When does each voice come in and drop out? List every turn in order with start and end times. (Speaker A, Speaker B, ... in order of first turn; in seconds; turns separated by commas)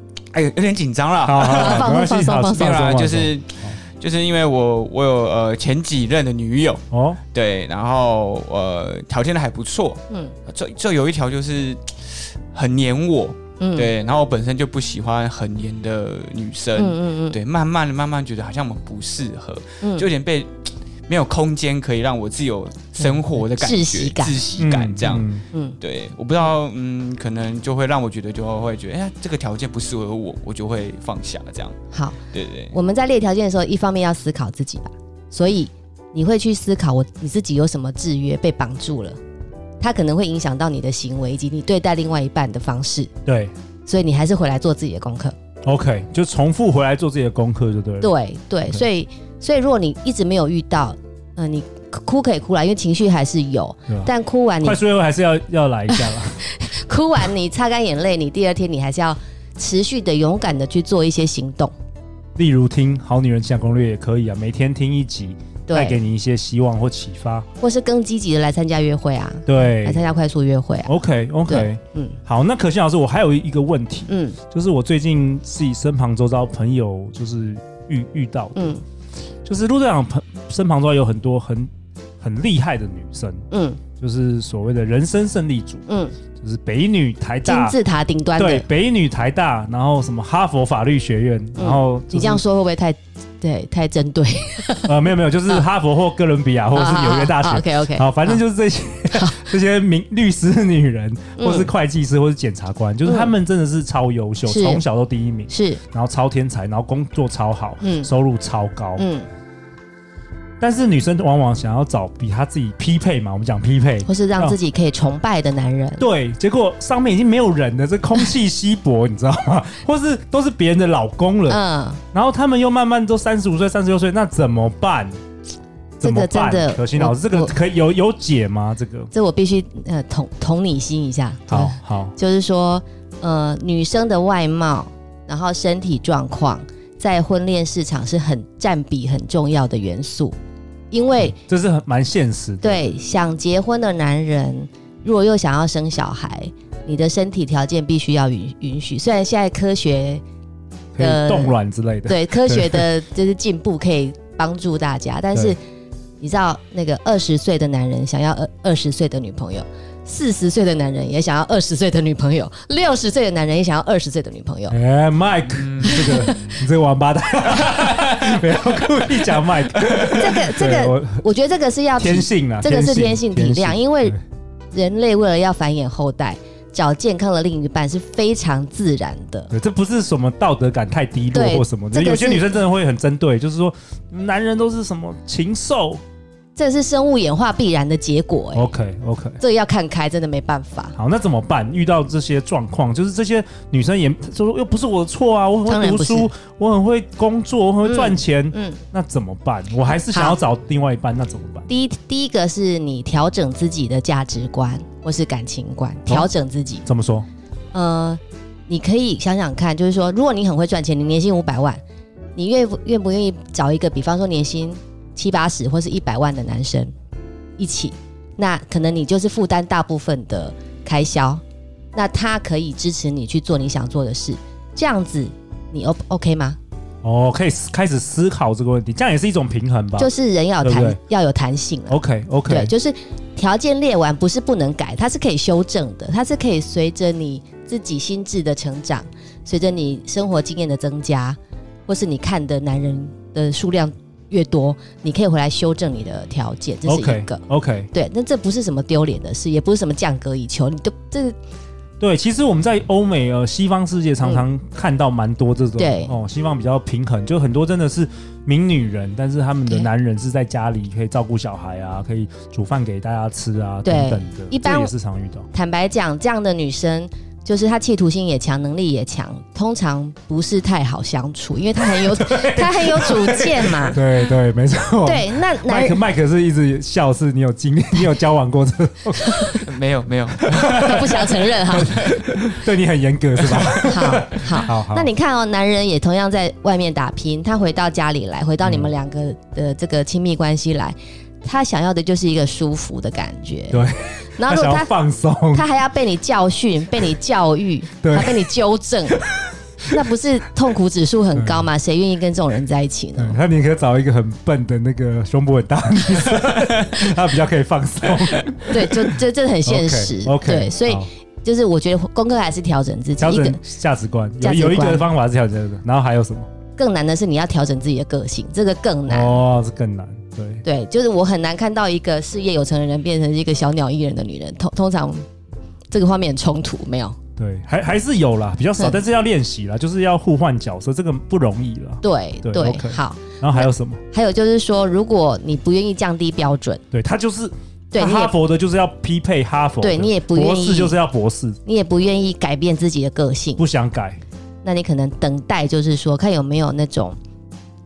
Speaker A: 0.3-32.8, Speaker B: 1.2-3.8, Speaker C: 1.7-2.8, Speaker B: 6.9-7.2, Speaker C: 10.1-10.3, Speaker C: 13.6-13.9, Speaker C: 16.7-17.4, Speaker C: 19.8-20.1, Speaker C: 23.3-24.5, Speaker B: 24.6-25.4, Speaker C: 25.5-25.8, Speaker C: 31.9-32.2, Speaker C: 32.7-39.2, Speaker C: 39.8-43.1, Speaker B: 43.2-43.5, Speaker C: 43.9-45.3, Speaker B: 45.6-48.1, Speaker C: 48.0-54.8, Speaker B: 53.9-56.4, Speaker C: 55.9-61.7, Speaker B: 62.4-67.5, Speaker C: 65.7-66.0, Speaker C: 67.6-70.9, Speaker B: 69.5-70.0, Speaker B: 70.8-78.8, Speaker C: 71.5-72.2, Speaker C: 74.1-74.4, Speaker C: 78.5-78.8, Speaker B: 79.4-81.7, Speaker B: 82.2-85.8, Speaker C: 83.5-83.8, Speaker C: 85.8-86.2, Speaker B: 86.3-87.8, Speaker C: 87.4-88.7, Speaker B: 88.4-92.4, Speaker C: 91.5-95.6, Speaker B: 94.8-109.1, Speaker C: 96.7-98.4, Speaker C: 99.1-99.5, Speaker C: 101.4-101.7, Speaker C: 103.0-103.3, Speaker C: 104.5-104.8, Speaker C: 105.5-105.8, Speaker C: 107.8-108.1, Speaker C: 109.0-109.3, Speaker B: 110.6-114.6, Speaker C: 114.0-116.0, Speaker B: 116.0-121.6, Speaker C: 121.5-122.0, Speaker B: 122.1-125.2, Speaker C: 126.0-127.5, Speaker B: 126.0-129.1, Speaker C: 129.1-140.3, Speaker B: 131.5-132.1, Speaker C: 140.9-141.3, Speaker B: 141.2-142.9, Speaker C: 142.6-150.2, Speaker B: 150.9-152.9, Speaker C: 151.0-155.6, Speaker C: 156.2-164.8, Speaker B: 164.7-171.2, Speaker A: 165.5-166.6, Speaker C: 165.8-166.5, Speaker A: 167.7-168.2, Speaker C: 170.1-174.1, Speaker B: 172.0-174.2, Speaker C: 174.7-179.5, Speaker B: 179.5-186.0, Speaker C: 181.3-182.6, Speaker C: 186.6-188.7, Speaker B: 188.5-189.4, Speaker C: 189.4-190.9, Speaker B: 190.9-201.7, Speaker C: 195.7-196.3, Speaker C: 197.8-198.8, Speaker C: 200.1-200.4, Speaker C: 201.7-206.9, Speaker B: 206.8-207.2, Speaker C: 207.7-211.8, Speaker C: 212.3-216.9, Speaker C: 217.6-221.4, Speaker C: 221.9-226.6, Speaker B: 227.0-231.0, Speaker C: 230.0-251.4, Speaker B: 231.9-232.7, Speaker B: 246.8-247.9, Speaker B: 252.0-265.5, Speaker C: 255.8-256.1, Speaker C: 263.8-264.9, Speaker C: 265.5-274.0, Speaker B: 271.8-279.7, Speaker C: 275.0-276.0, Speaker C: 279.2-279.5, Speaker A: 279.6-282.4, Speaker B: 280.4-285.1, Speaker C: 280.7-282.0, Speaker A: 283.4-284.5, Speaker C: 283.9-294.9, Speaker B: 288.6-288.9, Speaker B: 293.7-295.7, Speaker C: 295.5-299.2, Speaker B: 298.0-298.5, Speaker B: 299.1-300.0, Speaker C: 299.9-303.4, Speaker B: 301.3-301.7, Speaker B: 303.1-311.1, Speaker C: 308.7-313.6, Speaker B: 313.2-316.5, Speaker C: 314.4-315.1, Speaker C: 316.8-319.4, Speaker B: 319.1-320.6, Speaker C: 320.6-325.2, Speaker C: 325.9-327.2, Speaker B: 327.4-334.0, Speaker C: 332.0-336.8, Speaker B: 336.9-341.6, Speaker C: 337.9-338.3, Speaker C: 339.8-341.0, Speaker C: 341.6-343.6, Speaker B: 343.6-344.2, Speaker C: 344.6-347.2